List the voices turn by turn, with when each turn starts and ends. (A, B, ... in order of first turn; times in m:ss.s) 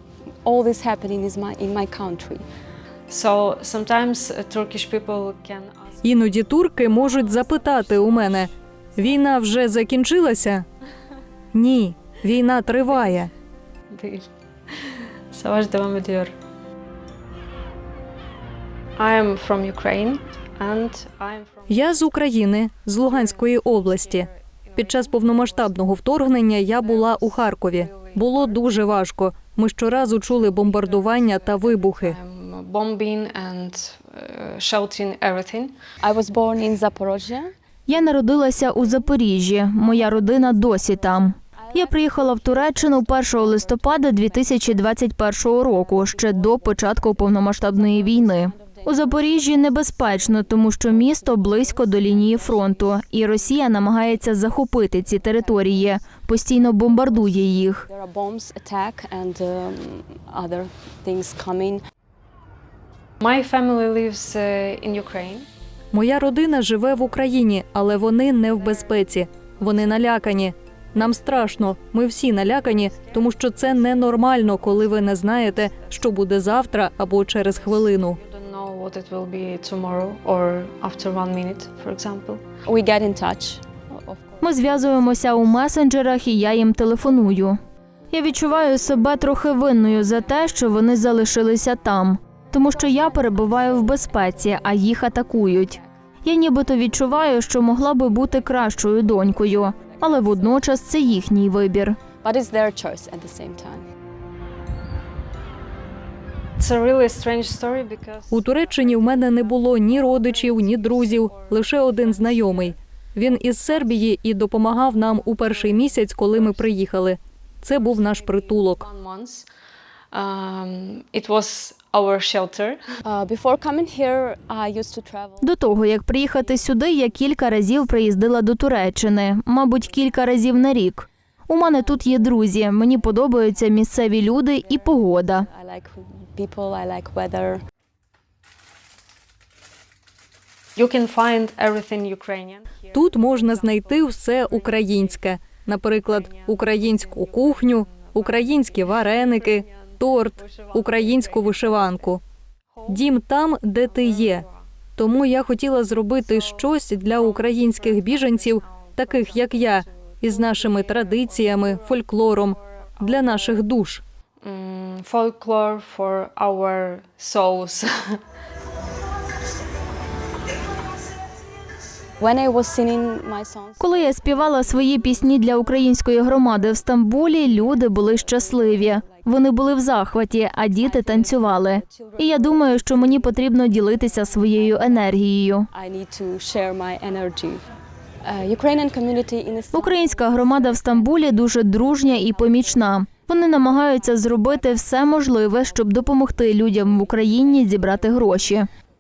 0:00.4-0:02.4 A
0:03.1-0:08.5 B
0:06.0-0:10.6 C
0:11.5-0:13.3 C
0:13.9-0:16.3 B
0:19.0-0:22.4 B
0:21.7-0:32.2 C
0:22.9-0:29.0 B
0:29.8-0:35.8 B
0:36.0-0:37.5 A
0:37.9-0:57.8 D
0:38.6-0:39.2 A
0:39.7-0:45.1 A
0:45.6-1:01.8 A
1:03.2-1:05.5 B
1:05.9-1:18.2 C
1:08.6-1:09.0 B
1:09.6-1:10.3 B
1:11.0-1:11.5 B
1:12.6-1:15.9 B
1:17.6-1:22.4 B
1:22.6-1:25.6 A
1:24.4-1:27.6 D
1:26.6-1:27.4 A
1:28.1-1:42.0 D
1:28.3-1:31.6 A
1:32.5-1:35.9 A
1:36.5-1:41.3 A
1:42.2-1:43.8 A
1:46.6-1:54.2 B
1:48.3-1:58.8 C
1:54.8-1:56.9 B
1:57.7-1:59.5 B
2:00.1-2:02.8 B
2:03.0-2:05.5 A
2:05.4-2:15.5 D
2:06.4-2:07.7 A
2:11.6-2:13.7 A
2:14.6-2:17.6 A
2:20.8-2:32.2 B
2:22.9-2:32.2 C
2:32.8-2:34.6 B
2:32.9-2:34.4 C
2:35.0-2:44.0 C
2:35.9-2:43.7 B
2:44.4-2:48.2 B
2:52.2-2:59.3 A
2:53.8-3:05.7 D
3:00.7-3:07.6 A
3:08.2-3:18.5 A
3:09.7-3:18.7 D